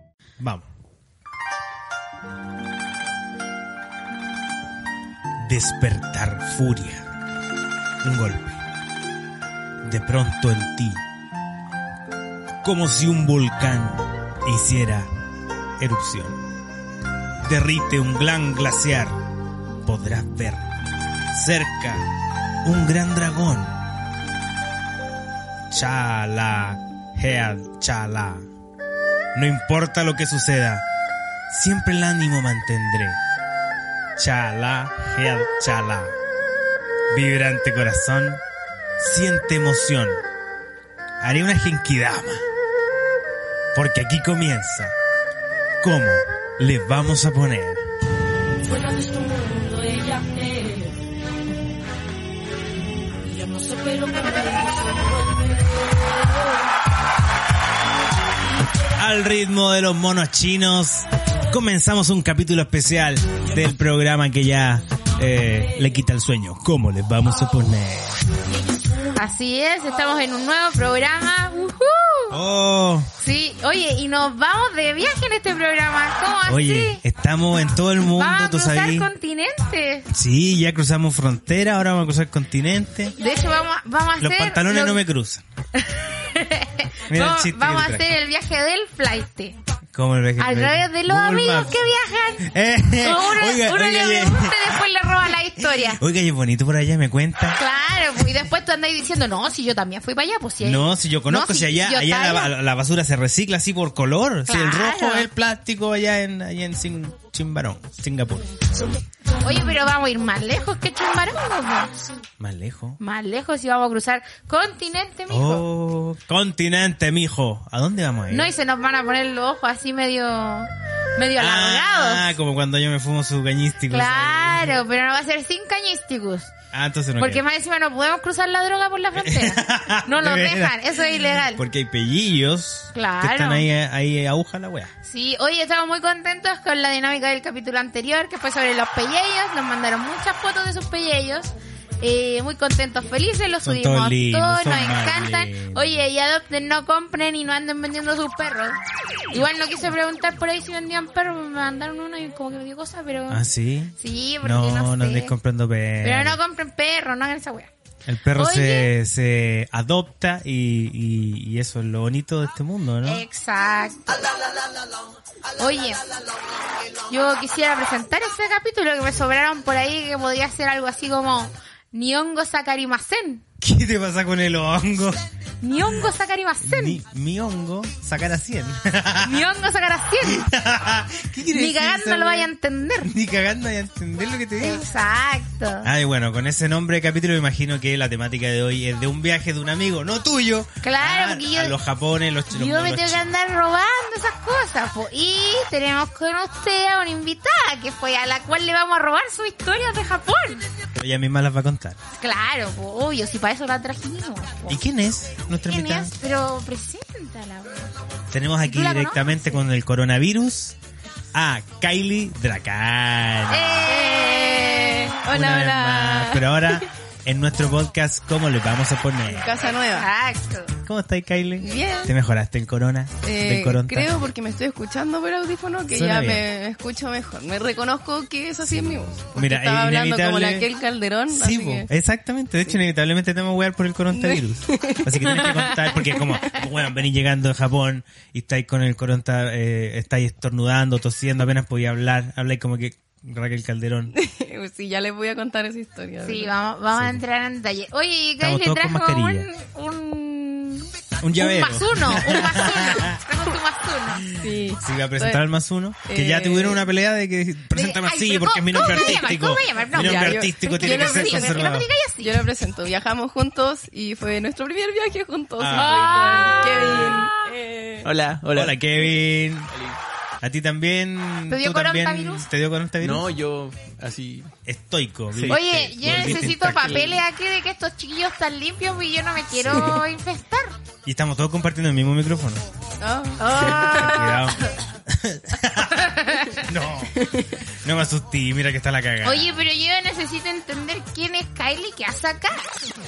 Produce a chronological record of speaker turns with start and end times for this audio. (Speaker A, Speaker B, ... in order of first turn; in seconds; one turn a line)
Speaker A: 0.4-0.6
Speaker A: 5.4-7.0
Speaker A: 8.0-8.6
Speaker A: 9.8-11.0
Speaker A: 12.6-15.1
Speaker A: 15.8-16.4
Speaker A: 17.4-19.1
Speaker A: 19.8-20.7
Speaker A: 21.3-22.1
Speaker A: 22.6-23.8
Speaker A: 25.7-28.5
Speaker A: 29.3-30.8
Speaker A: 31.5-33.2
Speaker A: 34.2-36.1
Speaker A: 37.1-38.4
Speaker A: 39.0-40.2
Speaker A: 41.2-42.4
Speaker A: 43.7-45.0
Speaker A: 45.8-47.8
Speaker B: 48.6-51.0
Speaker B: 53.2-56.7
Speaker A: 59.0-68.2
Speaker B: 68.5-69.1
Speaker C: 69.2-72.4
Speaker A: 72.3-73.1
Speaker C: 73.2-77.0
Speaker A: 76.5-79.1
Speaker C: 78.2-80.1
Speaker A: 80.1-83.1
Speaker C: 83.2-85.0
Speaker A: 84.2-85.4
Speaker C: 85.8-89.6
Speaker A: 87.1-88.1
Speaker A: 89.9-91.8
Speaker C: 90.4-92.4
Speaker A: 92.4-94.8
Speaker C: 93.0-96.0
Speaker A: 95.6-97.6
Speaker C: 97.6-102.5
Speaker A: 100.6-108.6
Speaker C: 104.5-105.3
Speaker C: 109.4-111.9
Speaker A: 112.4-113.0
Speaker C: 113.0-115.7
Speaker A: 115.3-118.5
Speaker C: 118.3-122.3
Speaker A: 121.4-124.8
Speaker C: 123.9-126.5
Speaker A: 126.7-127.4
Speaker C: 127.2-131.6
Speaker A: 129.2-134.9
Speaker C: 132.9-133.7
Speaker C: 135.0-148.8
Speaker A: 143.6-146.1
Speaker C: 149.3-153.4
Speaker A: 153.3-156.4
Speaker C: 154.0-155.3
Speaker C: 156.0-157.7
Speaker A: 158.1-163.2
Speaker C: 158.4-158.9
Speaker C: 163.0-164.2
Speaker C: 165.6-166.0
Speaker C: 167.1-173.4
Speaker A: 173.6-175.2
Speaker C: 175.6-177.0
Speaker A: 176.6-179.5
Speaker C: 179.2-180.5
Speaker A: 180.2-182.5
Speaker C: 181.5-183.1
Speaker A: 183.0-184.9
Speaker C: 184.6-185.9
Speaker A: 185.8-193.3
Speaker C: 190.8-191.8
Speaker C: 192.5-200.7
Speaker A: 200.9-202.0
Speaker C: 202.2-204.8
Speaker A: 204.7-206.1
Speaker C: 205.7-207.9
Speaker A: 208.3-210.8
Speaker C: 208.6-209.6
Speaker A: 211.3-213.9
Speaker C: 213.5-215.2
Speaker D: 213.9-216.8
Speaker A: 215.2-219.5
Speaker D: 219.3-220.1
Speaker C: 219.6-220.7
Speaker A: 220.8-224.2
Speaker D: 221.6-222.1
Speaker D: 223.2-231.9
Speaker A: 225.9-226.4
Speaker A: 229.3-230.7
Speaker A: 231.3-244.1
Speaker D: 234.1-235.9
Speaker D: 244.1-246.5
Speaker C: 246.2-254.2
Speaker A: 246.9-247.2
Speaker A: 248.4-249.5
Speaker A: 251.2-253.2
Speaker D: 254.4-255.4
Speaker A: 254.4-261.9
Speaker D: 256.1-256.8
Speaker C: 257.7-262.4
Speaker D: 258.8-259.1
Speaker D: 259.9-268.1
Speaker A: 265.6-266.6
Speaker C: 265.7-267.5
Speaker E: 266.8-267.1
Speaker E: 268.0-269.1
Speaker A: 268.5-269.7
Speaker E: 269.7-270.0
Speaker A: 270.4-273.3
Speaker C: 271.5-272.4
Speaker E: 273.0-274.5
Speaker A: 274.7-277.2
Speaker E: 275.4-276.4
Speaker C: 275.5-280.8
Speaker A: 279.5-280.1
Speaker A: 281.1-282.6
Speaker D: 283.0-284.3
Speaker C: 283.4-284.5
Speaker A: 283.5-287.2
Speaker C: 285.8-286.6
Speaker D: 287.2-287.6
Speaker A: 287.8-289.5
Speaker C: 289.2-292.6